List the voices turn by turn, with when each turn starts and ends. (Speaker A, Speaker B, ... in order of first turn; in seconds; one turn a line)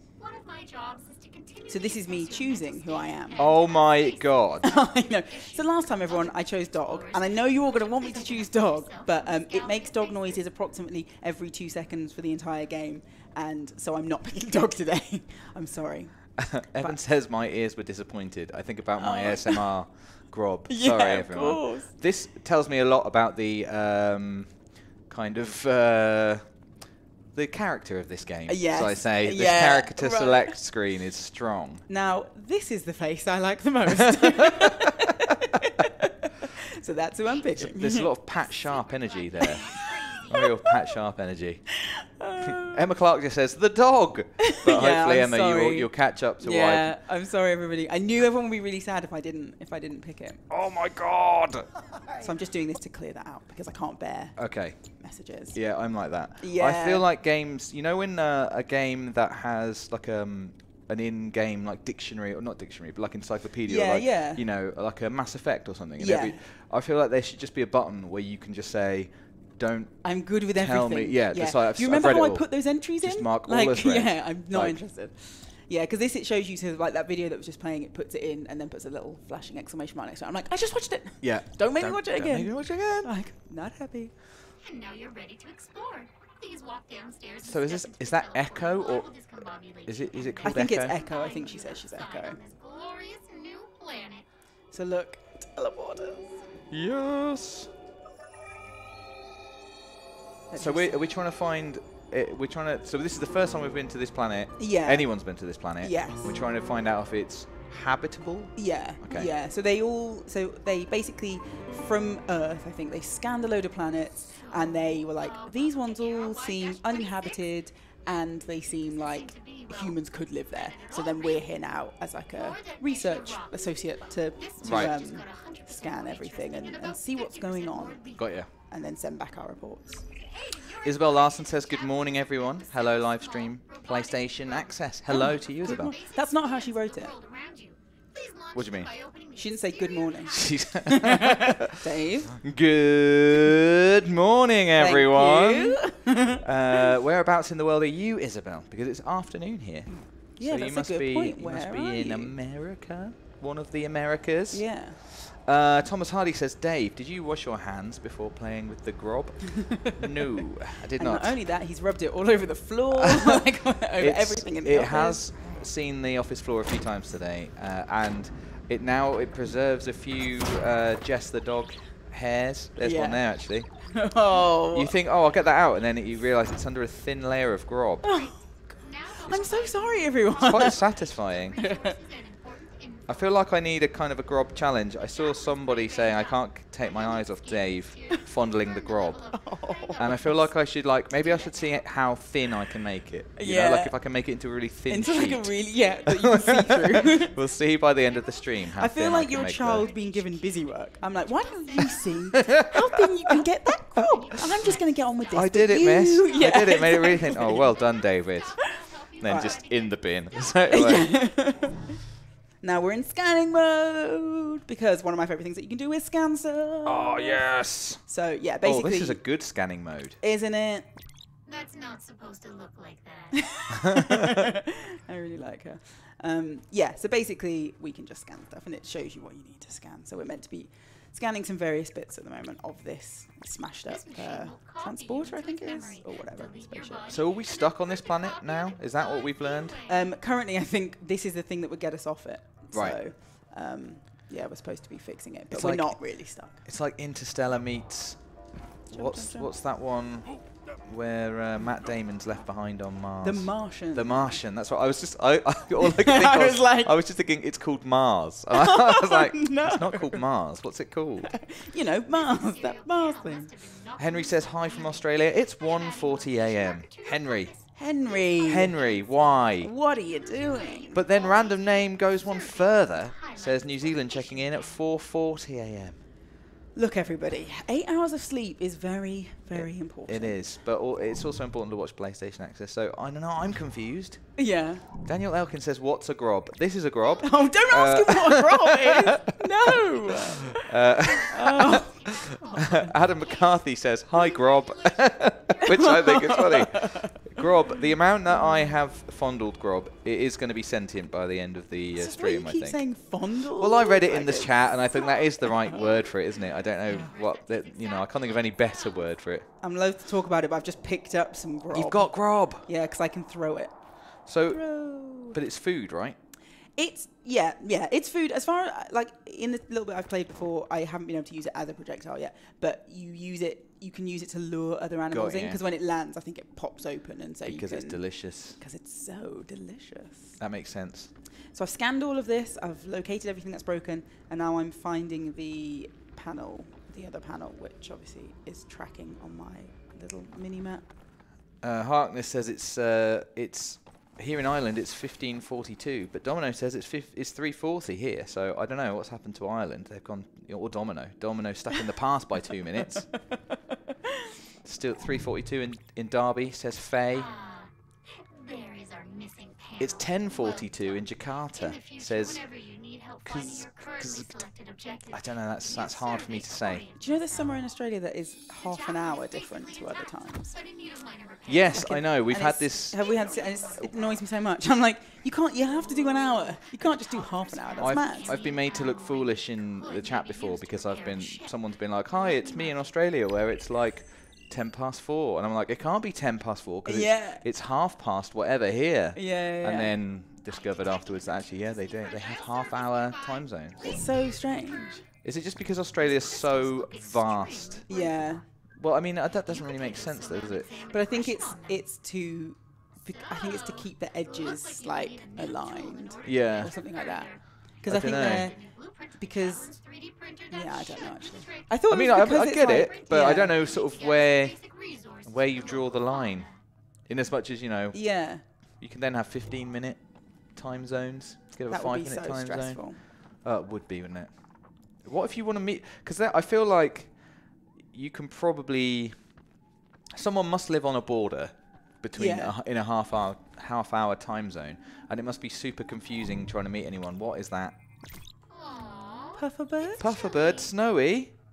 Speaker A: 0.2-10.4
Speaker B: 1.7-3.5
Speaker C: 3.4-4.7
Speaker B: 4.6-17.0
Speaker C: 16.4-26.5
Speaker B: 19.0-19.7
Speaker B: 20.7-21.9
Speaker C: 27.3-31.8
Speaker B: 28.5-30.6
Speaker B: 31.9-38.1
Speaker C: 33.9-34.7
Speaker A: 37.3-40.7
Speaker C: 37.5-41.6
Speaker B: 39.4-39.7
Speaker B: 41.8-42.9
Speaker C: 42.4-47.0
Speaker B: 44.4-50.4
Speaker C: 50.5-51.6
Speaker B: 52.2-54.4
Speaker C: 54.4-55.0
Speaker B: 54.9-55.6
Speaker C: 55.5-74.8
Speaker B: 56.4-57.0
Speaker B: 63.6-64.4
Speaker B: 66.0-66.4
Speaker B: 70.0-84.1
Speaker C: 81.2-83.1
Speaker A: 84.6-94.3
Speaker C: 87.4-89.1
Speaker C: 89.8-90.9
Speaker B: 90.4-92.4
Speaker B: 94.7-96.3
Speaker C: 96.7-97.7
Speaker B: 100.5-101.0
Speaker C: 100.5-109.3
Speaker B: 104.6-105.1
Speaker B: 105.8-106.3
Speaker B: 108.6-130.1
Speaker A: 114.3-117.4
Speaker A: 118.9-121.5
Speaker A: 122.3-128.3
Speaker C: 124.6-125.0
Speaker C: 128.2-128.5
Speaker A: 130.3-141.2
Speaker C: 130.8-135.9
Speaker B: 135.1-137.1
Speaker C: 138.5-138.9
Speaker B: 139.3-142.4
Speaker C: 140.3-141.7
Speaker C: 142.3-161.3
Speaker B: 144.8-146.4
Speaker B: 150.3-152.3
Speaker B: 154.5-155.0
Speaker B: 161.0-165.6
Speaker C: 163.0-163.4
Speaker C: 164.0-173.7
Speaker B: 172.8-173.2
Speaker B: 173.9-174.9
Speaker C: 174.7-178.1
Speaker B: 178.0-180.8
Speaker A: 178.1-183.3
Speaker C: 180.4-181.6
Speaker B: 181.6-181.9
Speaker C: 183.1-189.2
Speaker A: 185.0-190.5
Speaker B: 189.3-190.4
Speaker C: 189.9-195.5
Speaker A: 191.2-191.8
Speaker B: 193.4-194.0
Speaker B: 194.9-197.3
Speaker A: 195.3-196.0
Speaker C: 196.1-199.9
Speaker A: 197.1-203.0
Speaker B: 198.8-207.7
Speaker A: 203.9-211.8
Speaker C: 205.3-211.1
Speaker B: 209.2-209.6
Speaker B: 210.7-212.0
Speaker B: 212.6-219.2
Speaker C: 216.8-218.0
Speaker C: 218.6-220.2
Speaker B: 220.2-220.8
Speaker A: 221.4-224.0
Speaker B: 223.5-224.5
Speaker C: 223.9-224.2
Speaker B: 225.1-237.1
Speaker A: 233.9-240.1
Speaker C: 237.1-239.8
Speaker B: 239.9-246.6
Speaker C: 242.7-243.0
Speaker C: 245.5-261.3
Speaker B: 248.9-249.5
Speaker B: 253.2-254.3
Speaker B: 255.8-256.9
Speaker B: 258.5-260.2
Speaker B: 261.2-263.5
Speaker A: 262.1-274.8
Speaker C: 264.0-267.5
Speaker B: 267.7-268.8
Speaker C: 268.5-269.7
Speaker B: 269.6-271.0
Speaker C: 270.9-276.0
Speaker B: 276.7-280.4
Speaker C: 279.5-284.4
Speaker B: 284.4-284.9
Speaker C: 285.0-289.4
Speaker B: 287.2-290.7
Speaker C: 290.6-292.1
Speaker B: 291.3-292.9
Speaker A: 291.4-296.8
Speaker C: 292.7-309.5
Speaker B: 295.6-297.1
Speaker B: 301.9-305.5
Speaker A: 305.5-309.2
Speaker B: 309.6-315.4
Speaker C: 311.7-312.7
Speaker C: 314.3-316.2
Speaker B: 316.8-330.4
Speaker C: 325.1-325.6
Speaker C: 327.4-328.6
Speaker C: 330.4-331.1
Speaker B: 331.5-340.9
Speaker C: 341.6-353.2
Speaker C: 354.6-357.3
Speaker A: 357.1-367.5
Speaker C: 359.8-362.4
Speaker C: 363.2-364.4
Speaker C: 365.1-366.9
Speaker B: 367.0-370.5
Speaker A: 368.5-372.1
Speaker C: 371.4-373.0
Speaker B: 371.7-378.3
Speaker A: 372.9-374.2
Speaker A: 375.8-382.8
Speaker C: 377.8-393.8
Speaker B: 386.8-387.4
Speaker B: 389.1-389.9
Speaker A: 390.4-395.0
Speaker B: 393.8-395.0
Speaker C: 395.2-397.9
Speaker A: 396.0-398.5
Speaker B: 397.9-398.4
Speaker C: 398.8-400.7
Speaker A: 399.4-401.9
Speaker B: 400.9-409.8
Speaker A: 403.1-416.6
Speaker C: 406.2-406.7
Speaker C: 407.9-408.5
Speaker B: 410.5-413.5
Speaker C: 411.9-416.5
Speaker C: 417.0-429.4
Speaker B: 417.9-418.4
Speaker B: 421.7-423.0
Speaker C: 430.1-437.8
Speaker B: 432.1-432.5
Speaker A: 438.5-440.7
Speaker B: 439.4-440.1
Speaker C: 440.0-441.3